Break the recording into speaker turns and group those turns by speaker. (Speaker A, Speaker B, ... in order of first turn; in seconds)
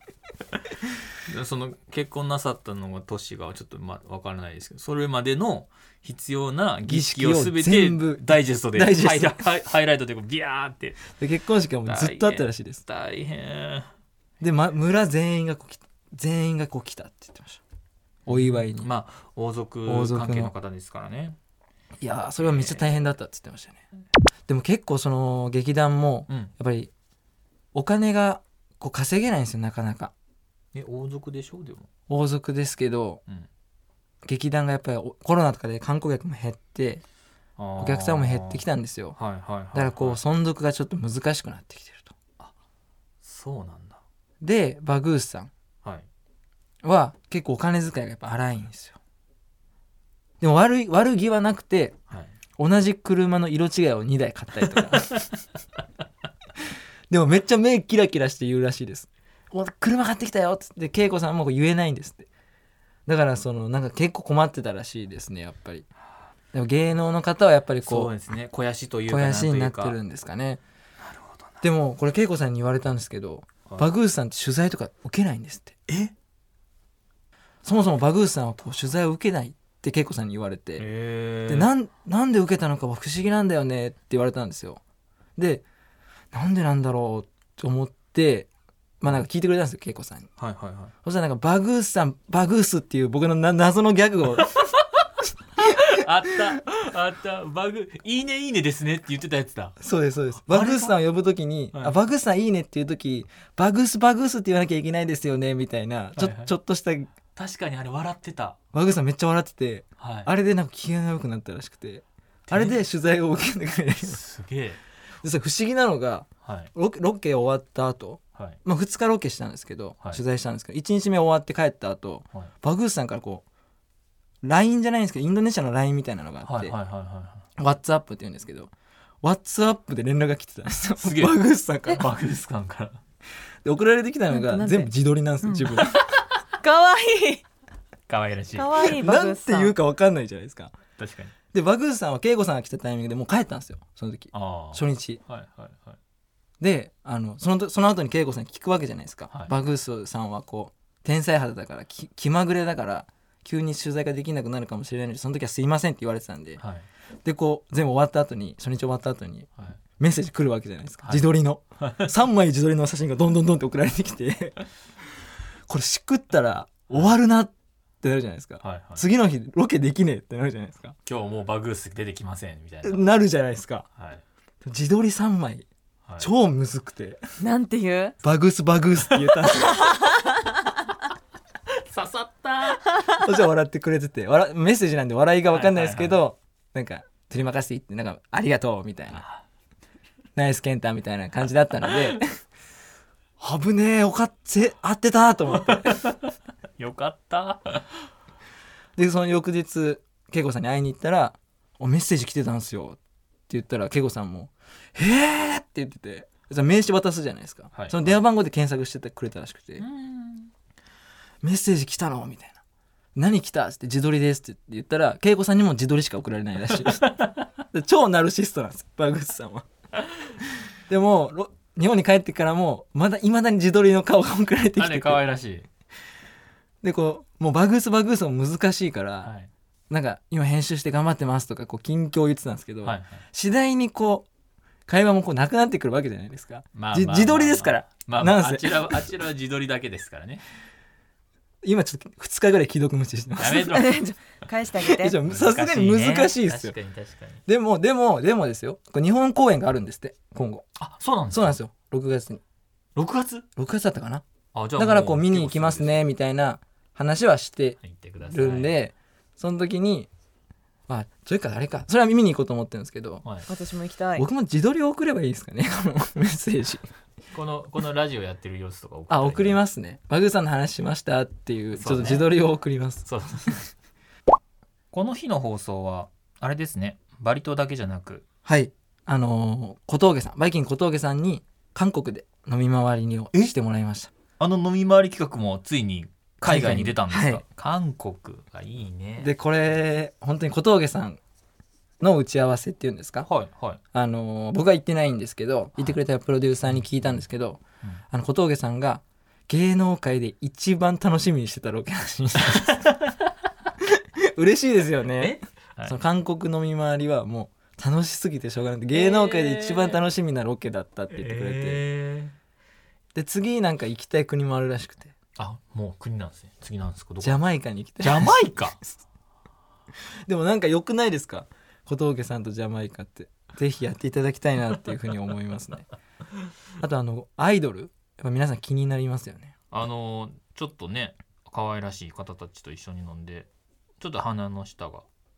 Speaker A: 1.1-11.1, 11.9-13.9, 18.3-21.4, 22.4-23.1, 30.7-31.9, 37.6-40.2, 43.2-44.0, 54.9-55.2, 67.8-70.0, 71.0-71.7, 75.9-76.1, 80.8-81.7, 90.4-90.9, 95.6-99.8, 100.4-101.0, 106.2-106.5, 107.3-108.6, 110.0-110.3, 112.5-112.8, 114.0-114.8, 116.4-116.7, 126.4-127.5, 131.0-131.4, 131.9-133.0, 138.1-138.8, 141.0-141.3, 144.3-146.0, 156.6-156.9, 161.8-162.1, 166.9-167.2, 168.6-169.1, 171.1-173.1, 173.9-174.2, 176.1-176.3, 179.1-179.4, 181.8-183.2, 185.5-186.2, 196.8-197.9, 207.7-208.2, 209.8-210.5, 217.0-217.3, 224.8-225.7, 229.2-229.5, 232.8-233.2, 236.7-240.4, 243.4-244.1, 245.3-247.4, 250.8-251.6, 253.0-253.5, 254.5-256.0, 257.8-258.8, 263.2-263.5, 267.3-269.6, 271.7-272.3, 273.1-273.7, 274.9-278.3, 284.4-289.3, 293.2-293.8, 296.7-297.2, 302.7-303.1, 305.1-305.9, 308.9-310.0, 311.1-312.4, 315.4-317.4, 318.0-318.8, 329.7-333.5, 334.0-335.1
Speaker B: 6.9-9.4, 11.2-12.8, 14.4-17.6, 18.3-18.9, 19.9-20.5, 22.0-23.8, 24.5-26.9, 27.7-30.1, 32.1-33.2, 34.2-37.0, 37.8-39.2, 39.7-42.1, 44.4-45.5, 46.8-49.0, 50.4-52.0, 52.6-55.2, 57.1-62.3, 63.1-65.9, 66.5-68.1, 69.1-70.6, 71.6-75.8, 77.6-80.9, 81.5-84.8, 85.4-85.6, 86.3-88.5, 89.0-90.3, 91.0-94.6, 99.8-107.1, 108.7-114.2, 115.2-123.5, 124.4-126.8, 127.6-132.1, 133.6-136.1, 138.8-140.8, 141.5-145.2, 146.6-156.6, 157.2-159.5, 160.0-164.6, 165.7-171.0, 172.8-173.9, 174.6-175.7, 176.2-177.2, 178.2-180.1, 183.1-189.2, 190.4-192.3, 193.4-196.1, 199.0-209.8, 211.4-212.6, 213.2-217.1, 217.7-219.7, 220.9-225.2, 226.8-229.3, 229.9-234.3, 234.9-239.1, 241.6-243.8, 244.8-246.8, 247.5-250.7, 251.3-252.4, 253.6-254.2, 254.8-260.1, 260.9-263.2, 264.2-266.9, 269.1-273.1, 278.4-284.1, 286.4-287.4, 289.2-291.2, 292.0-293.3, 293.9-302.8, 303.8-311.8, 313.1-315.1, 317.2-318.4, 320.3-325.9, 326.8-329.6
Speaker C: 134.3-134.9, 135.4-135.8, 136.6-137.4, 138.5-139.8, 177.4-178.2, 179.8-180.4, 243.6-245.2, 263.5-264.3